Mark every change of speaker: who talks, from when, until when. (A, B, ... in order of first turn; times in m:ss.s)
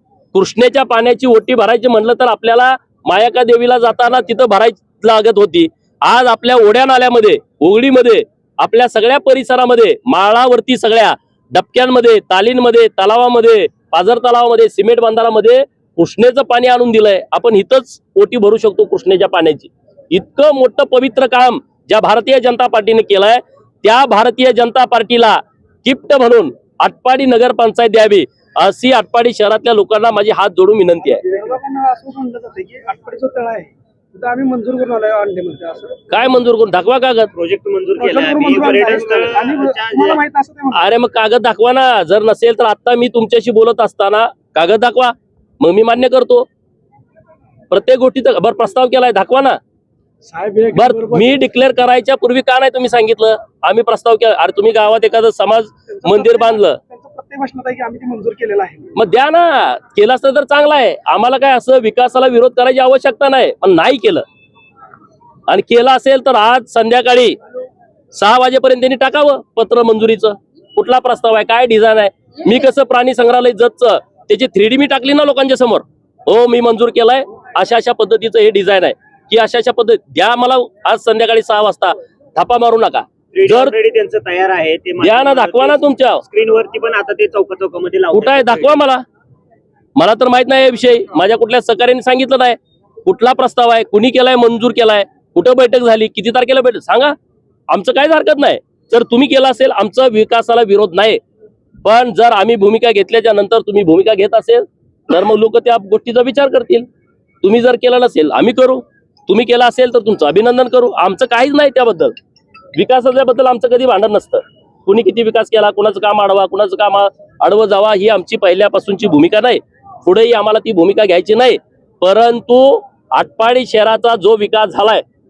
0:00.3-0:31.2 A
0:31.1-0:36.1 B
0:36.1-0:37.3 A
0:37.3-0:40.2 C
0:38.0-0:40.9 B
0:40.7-0:46.5 A
0:47.7-0:49.6 A
0:50.2-0:51.4 B
0:50.7-0:56.8 A
0:55.9-0:58.9 B
0:59.0-1:04.2 A
1:05.5-1:07.4 A
1:08.1-1:23.7 A
1:23.3-1:28.8 C
1:25.0-1:26.2 A
1:28.1-1:29.0 A
1:30.0-1:37.2 A
1:37.7-1:41.2 A
1:41.8-1:46.9 A
1:47.4-1:52.2 A
1:52.8-2:05.0 A